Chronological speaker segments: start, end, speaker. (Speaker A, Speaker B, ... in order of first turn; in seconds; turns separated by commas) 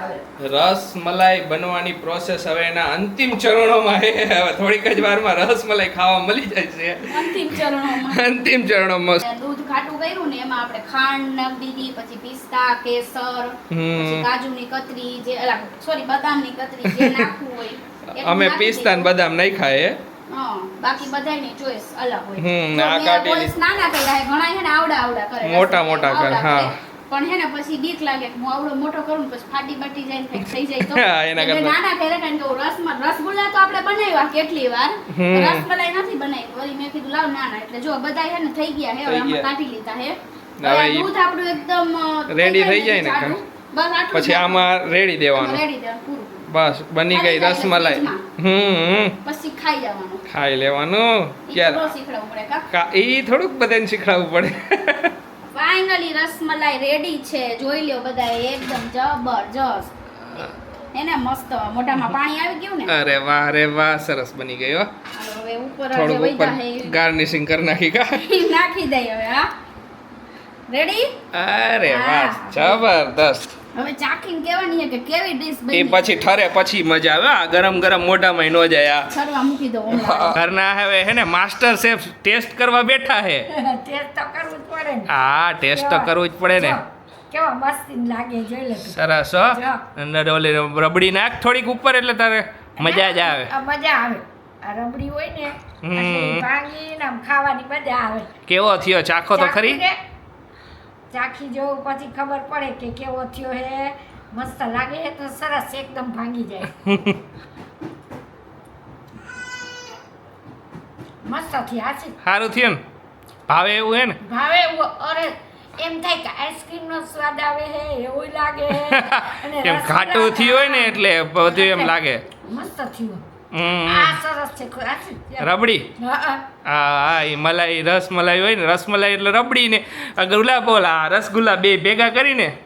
Speaker A: 0.4-9.2, Speaker B: 7.1-8.4, Speaker B: 9.2-19.1, Speaker A: 13.7-14.3, Speaker A: 16.9-17.3, Speaker A: 18.1-20.0, Speaker B: 20.3-44.7, Speaker A: 22.4-23.5, Speaker A: 25.4-26.7, Speaker A: 30.5-31.8, Speaker A: 35.1-35.6, Speaker A: 39.1-39.5, Speaker A: 40.6-41.1, Speaker A: 42.3-43.4, Speaker A: 44.1-45.6, Speaker B: 45.3-46.4, Speaker A: 46.5-49.2, Speaker B: 47.1-48.2, Speaker B: 49.2-50.2, Speaker A: 50.3-51.9, Speaker B: 51.5-52.6, Speaker A: 52.7-55.1, Speaker B: 55.5-59.9, Speaker B: 60.9-62.9, Speaker A: 62.9-64.9, Speaker B: 65.2-67.0, Speaker A: 65.9-68.2, Speaker B: 68.2-69.5, Speaker B: 70.7-71.2, Speaker A: 71.3-73.5, Speaker B: 71.8-72.9, Speaker B: 73.8-76.2, Speaker A: 75.7-79.1, Speaker B: 79.1-80.4, Speaker A: 79.9-83.5, Speaker C: 83.5-85.1, Speaker A: 85.1-86.8, Speaker C: 85.7-89.0, Speaker A: 88.8-93.5, Speaker C: 89.5-89.8, Speaker C: 92.8-98.3, Speaker A: 95.8-96.5, Speaker A: 98.5-99.8, Speaker C: 99.3-100.0, Speaker C: 101.1-106.8, Speaker A: 106.9-107.2, Speaker C: 111.2-112.2, Speaker A: 112.2-112.8, Speaker A: 113.5-114.2, Speaker C: 114.2-121.9, Speaker A: 118.7-122.2, Speaker C: 122.5-123.2, Speaker A: 123.5-124.2, Speaker C: 123.8-126.4, Speaker A: 125.4-125.9, Speaker A: 126.7-132.6